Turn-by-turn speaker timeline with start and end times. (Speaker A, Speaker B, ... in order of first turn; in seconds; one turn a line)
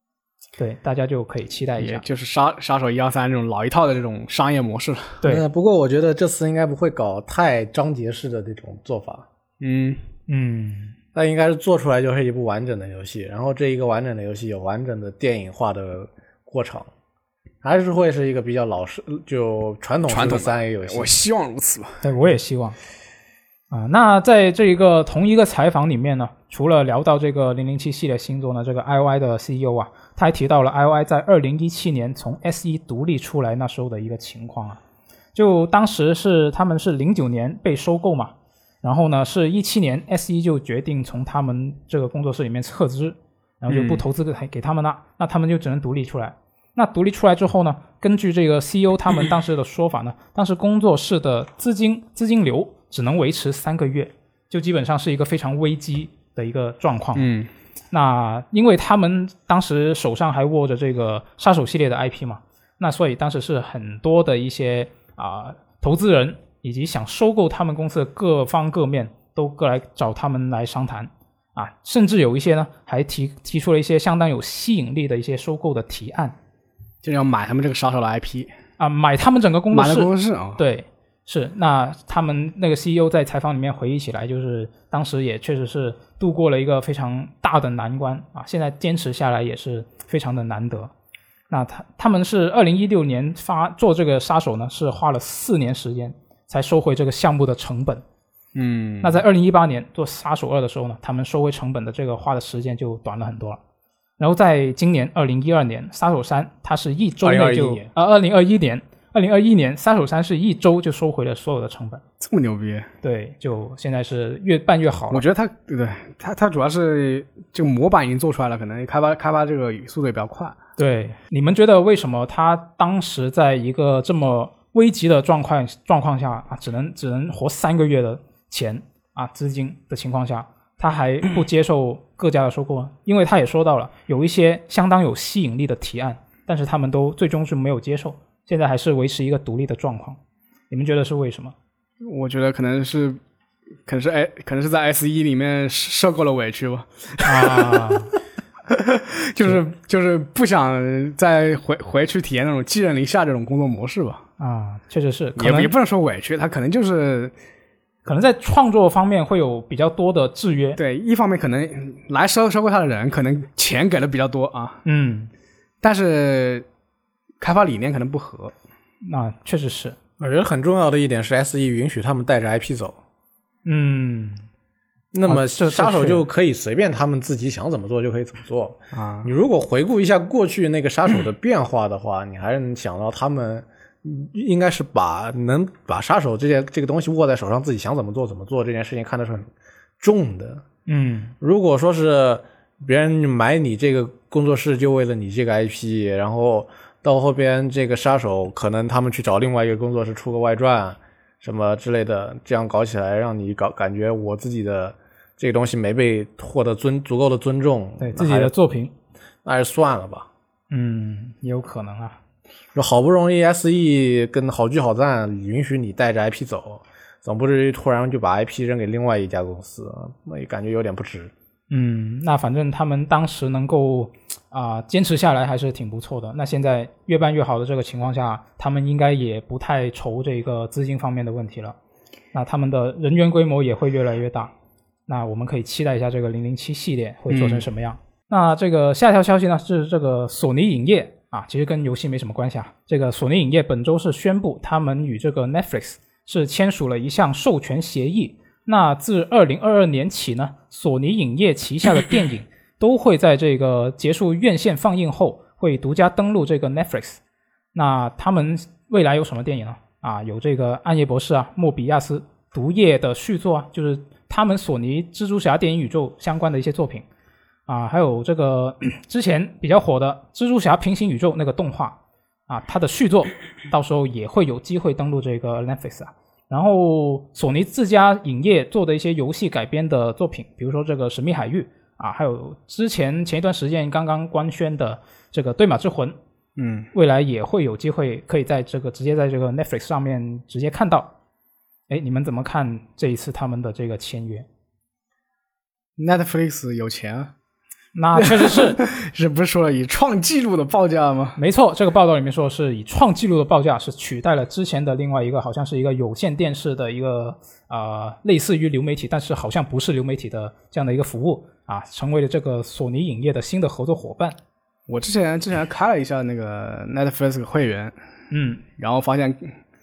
Speaker A: 0.6-2.0
Speaker B: 1.8-5.2
Speaker C: 5.2-9.2
Speaker B: 9.6-10.0
Speaker A: 10.3-10.9
Speaker C: 11.1-16.9
Speaker C: 17.6-21.1
Speaker B: 20.1-22.0
Speaker A: 22.0-22.8
Speaker A: 23.7-34.8
Speaker A: 35.3-57.3
Speaker B: 43.7-44.0
Speaker B: 57.1-57.5
Speaker A: 57.9-76.3
Speaker B: 77.0-78.5
Speaker A: 78.8-90.9
Speaker B: 79.7-80.6
Speaker A: 91.5-98.0
Speaker B: 98.5-99.2
Speaker A: 99.0-103.6
Speaker A: 104.2-112.0
Speaker B: 107.2-107.9
Speaker B: 112.2-112.9
Speaker A: 113.0-115.2
Speaker B: 115.1-120.6
Speaker A: 120.8-140.2
Speaker A: 140.7-141.5
Speaker B: 142.0-143.2
Speaker B: 143.8-148.0
Speaker A: 147.2-148.1
Speaker B: 148.7-154.2
Speaker A: 154.4-155.7
Speaker B: 155.3-157.3
Speaker A: 158.0-160.8
Speaker B: 160.8-164.8
Speaker A: 164.8-165.3
Speaker B: 165.8-166.6
Speaker B: 167.4-168.5
Speaker A: 169.0-169.9
Speaker C: 170.2-173.0
Speaker A: 173.6-174.4
Speaker C: 175.1-189.5
Speaker A: 175.3-176.2
Speaker B: 178.9-179.3
Speaker C: 190.0-190.6
Speaker A: 190.9-191.3
Speaker C: 191.4-208.5
Speaker A: 208.0-208.9
Speaker C: 209.4-210.3
Speaker A: 210.7-212.2
Speaker C: 212.7-221.3
Speaker A: 221.7-231.8
Speaker A: 232.3-234.5
Speaker A: 235.1-257.2
Speaker B: 237.3-237.7
Speaker A: 257.7-267.1
Speaker A: 267.7-286.1
Speaker B: 286.6-286.9
Speaker A: 286.9-291.1
Speaker A: 291.9-294.5
Speaker B: 296.0-297.3
Speaker A: 297.9-298.8
Speaker B: 298.1-301.4
Speaker A: 301.4-314.4
Speaker B: 314.9-317.9
Speaker A: 318.3-318.6
Speaker B: 318.8-319.5